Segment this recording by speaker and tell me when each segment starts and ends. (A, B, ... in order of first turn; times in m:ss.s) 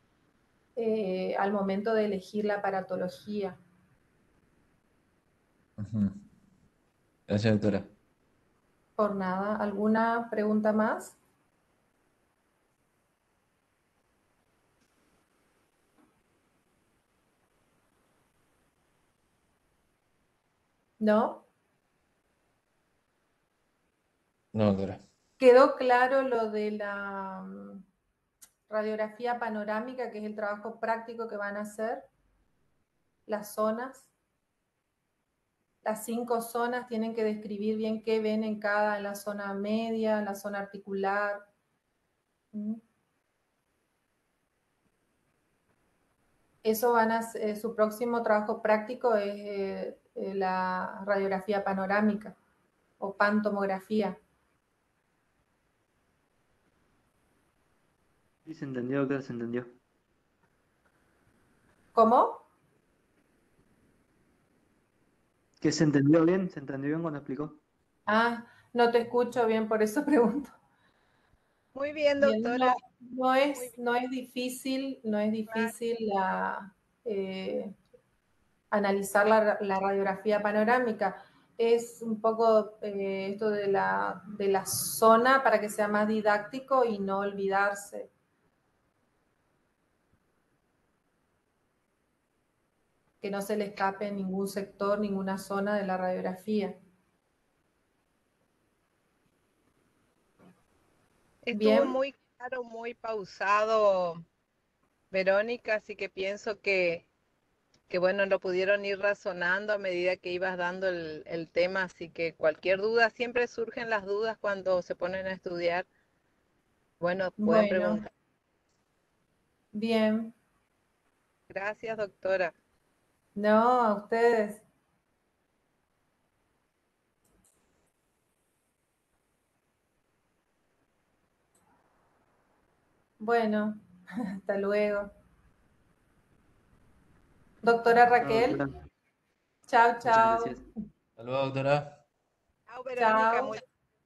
0:00.8-0:03.6 A
0:05.8-0:06.2 B
0:07.3-0:07.9 B
0:09.0-0:11.2 A
0:21.0-0:21.4 A
0:24.5-0:25.0 B
0:25.4-0:27.8 A
0:28.7-0:32.1 A
0:33.3-0:34.1 A
0:35.8-0:41.5 A
0:42.5-0:42.8 A
0:46.6-0:52.4 A
0:53.0-0:54.2 A
0:58.4-0:59.8 C
1:01.9-1:02.4 A
1:05.6-1:07.6 C
1:08.1-1:10.6 A
1:11.7-1:12.8 D
1:12.2-1:17.8 A
1:18.7-1:28.1 A
1:33.2-1:36.8 A
1:41.4-1:44.2 D
1:41.5-1:42.0 A
1:45.1-1:47.1 D
1:47.9-1:55.9 D
1:57.0-1:58.1 D
1:57.4-1:58.0 A
1:59.7-2:00.4 A
2:01.5-2:02.5 D
2:03.4-2:04.6 A
2:13.2-2:13.8 A
2:14.4-2:15.1 A
2:17.6-2:18.6 A
2:18.2-2:18.7 C
2:19.7-2:20.6 A
2:20.0-2:20.6 C
2:21.2-2:21.9 B
2:22.7-2:23.6 D
2:23.0-2:23.6 A